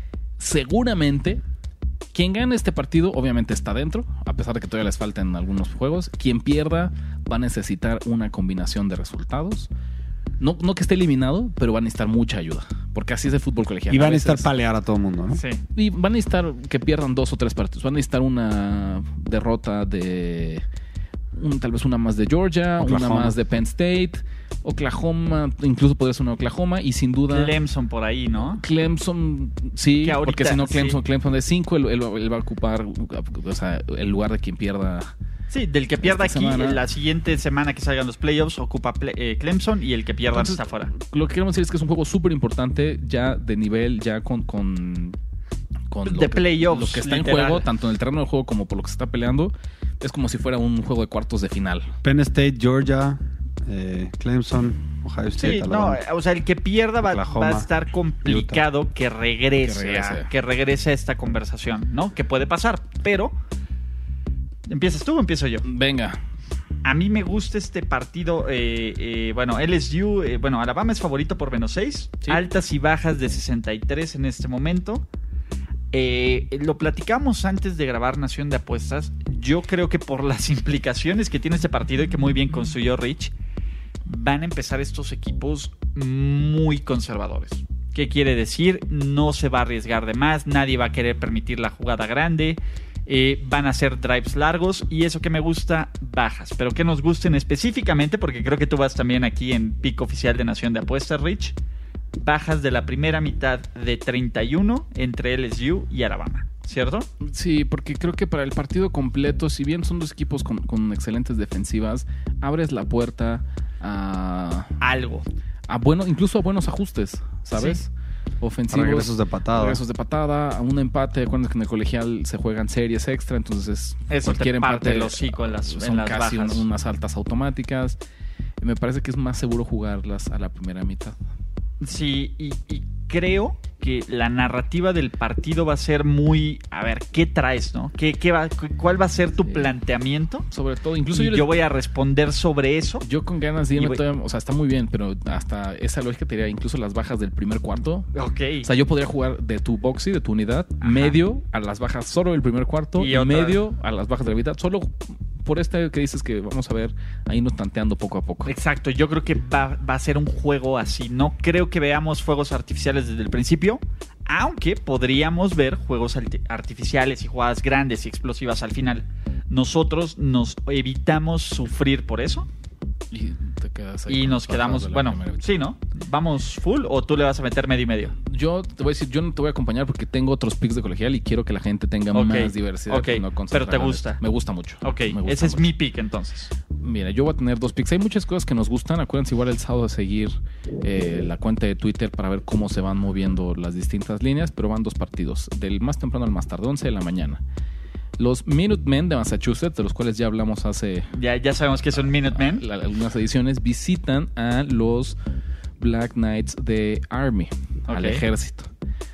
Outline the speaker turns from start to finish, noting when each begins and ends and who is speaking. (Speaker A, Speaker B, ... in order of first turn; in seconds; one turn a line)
Speaker A: 0.4-1.4
Speaker A: 2.1-9.7
Speaker A: 10.4-14.5
Speaker B: 13.9-15.4
Speaker C: 15.3-15.6
Speaker A: 15.7-20.6
Speaker A: 21.3-27.5
Speaker B: 22.8-23.4
Speaker C: 27.3-28.6
Speaker A: 28.5-35.1
Speaker C: 30.0-31.0
Speaker C: 35.5-40.9
Speaker A: 36.0-36.8
Speaker A: 40.3-45.2
Speaker A: 45.9-51.9
Speaker C: 46.0-47.6
Speaker B: 52.0-56.0
Speaker C: 55.4-63.3
Speaker B: 57.0-57.7
Speaker B: 58.2-58.6
Speaker A: 59.6-60.3
Speaker C: 64.7-65.6
Speaker A: 65.6-66.2
Speaker C: 66.8-75.0
Speaker C: 75.9-83.3
Speaker C: 84.0-101.5
Speaker C: 102.2-107.1
Speaker A: 107.2-114.7
Speaker C: 114.8-115.2
Speaker A: 115.7-117.9
Speaker C: 117.5-117.8
Speaker A: 118.4-128.0
Speaker B: 118.7-119.8
Speaker C: 124.1-126.6
Speaker A: 128.6-131.2
Speaker C: 131.8-140.5
Speaker A: 140.5-141.5
Speaker C: 141.1-143.0
Speaker A: 143.0-148.1
Speaker C: 143.8-144.0
Speaker C: 148.1-148.7
Speaker A: 148.6-158.5
Speaker C: 150.8-151.1
Speaker C: 153.0-153.6
Speaker C: 158.4-172.5
Speaker A: 173.1-175.5
Speaker C: 174.1-178.1
Speaker A: 178.2-185.7
Speaker C: 182.1-184.2
Speaker C: 184.8-186.5
Speaker A: 186.8-197.4
Speaker A: 198.2-201.1
Speaker C: 201.2-202.6
Speaker A: 202.0-205.2
Speaker A: 205.8-208.7
Speaker C: 207.9-208.2